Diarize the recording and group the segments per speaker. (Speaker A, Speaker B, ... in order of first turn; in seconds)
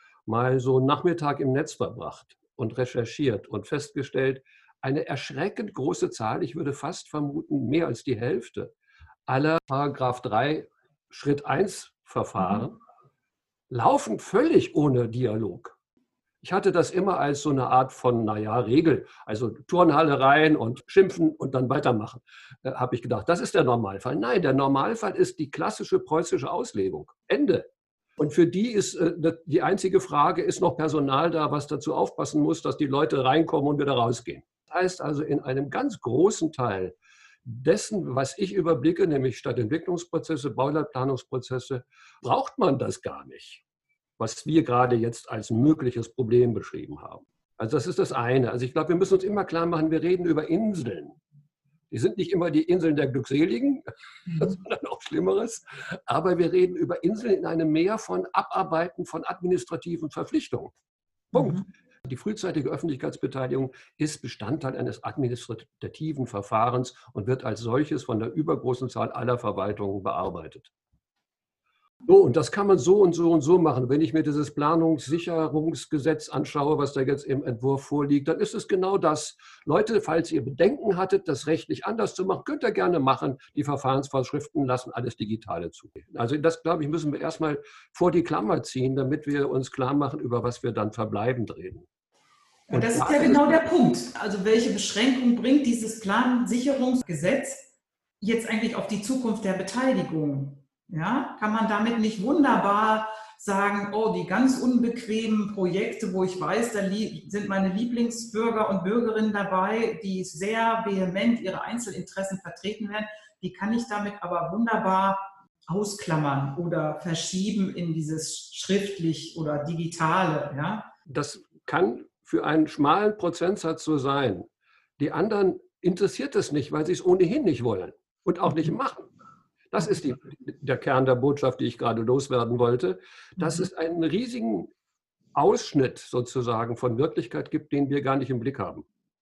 Speaker A: 0.3-8.7, 9.3-12.8, 13.7-15.7, 16.4-27.7, 28.2-43.6, 44.2-51.2, 51.9-60.7, 61.3-70.7, 72.1-91.9, 92.7-93.6, 121.1-129.1, 129.7-134.7, 135.3-138.9
Speaker B: 61.3-61.7, 92.7-97.6, 98.2-120.9